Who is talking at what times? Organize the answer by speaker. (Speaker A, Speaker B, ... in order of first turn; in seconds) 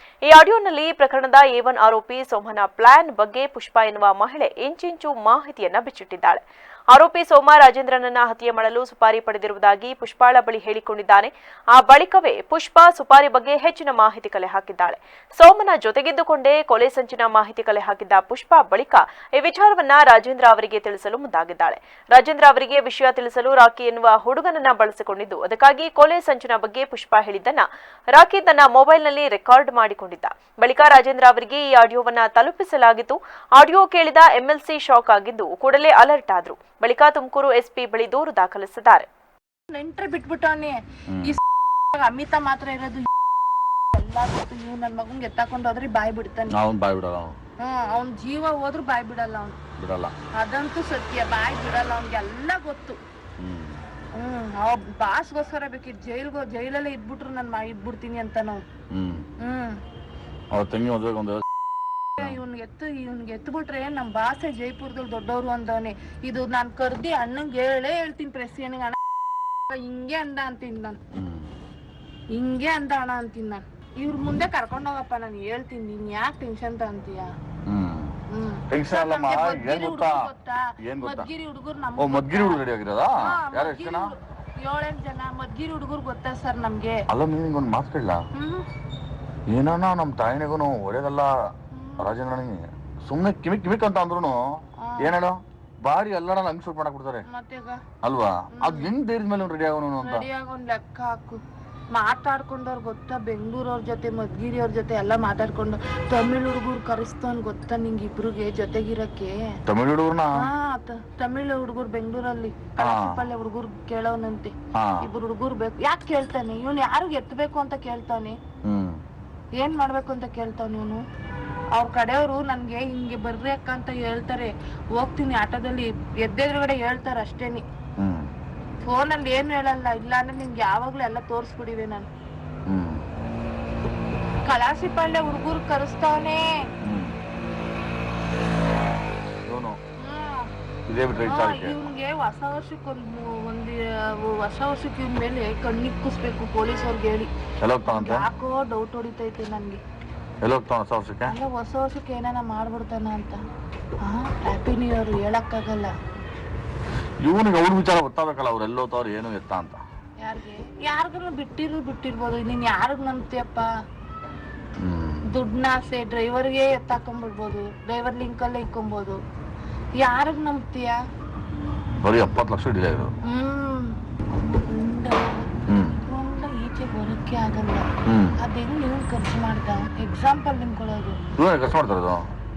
Speaker A: 0.3-6.4, 6.9-39.1
Speaker B: 39.7-41.4, 41.9-43.1, 43.9-46.5, 47.6-49.6, 50.4-53.0, 54.2-58.6, 59.4-59.8, 62.2-69.0, 69.7-71.0, 72.3-77.3, 78.3-82.6, 83.2-87.0, 88.3-88.7, 91.7-92.1, 94.8-95.2, 97.3-97.8, 98.6-98.9, 100.0-101.4, 101.9-109.3, 110.4-118.4, 119.6-121.0, 121.8-127.6, 128.8-132.1, 134.5-136.4, 140.0-140.5, 141.2-147.3, 147.9-149.8, 151.3-153.4, 154.0-155.9, 160.2-163.7, 165.3-169.2, 170.0-171.0, 173.3-173.9, 174.5-175.3, 176.0-177.9, 178.4-181.2
Speaker C: 41.1-41.4, 46.5-47.4, 49.8-50.1, 53.4-53.8, 58.9-59.3, 60.5-61.4, 71.2-71.5, 77.7-78.2, 78.7-80.3, 80.8-81.3, 82.0-84.1, 87.1-88.2, 89.5-91.3, 92.0-94.4, 95.0-97.2, 98.0-100.3, 109.7-110.4, 112.8-113.2, 114.8-115.0, 118.7-119.0, 128.0-128.3, 132.7-133.0, 136.8-137.2, 139.5-139.8, 140.9-141.8, 147.6-148.2, 150.4-151.3, 157.2-159.8, 164.8-165.2, 172.0-173.1, 175.7-176.0, 178.1-178.4, 181.4-182.2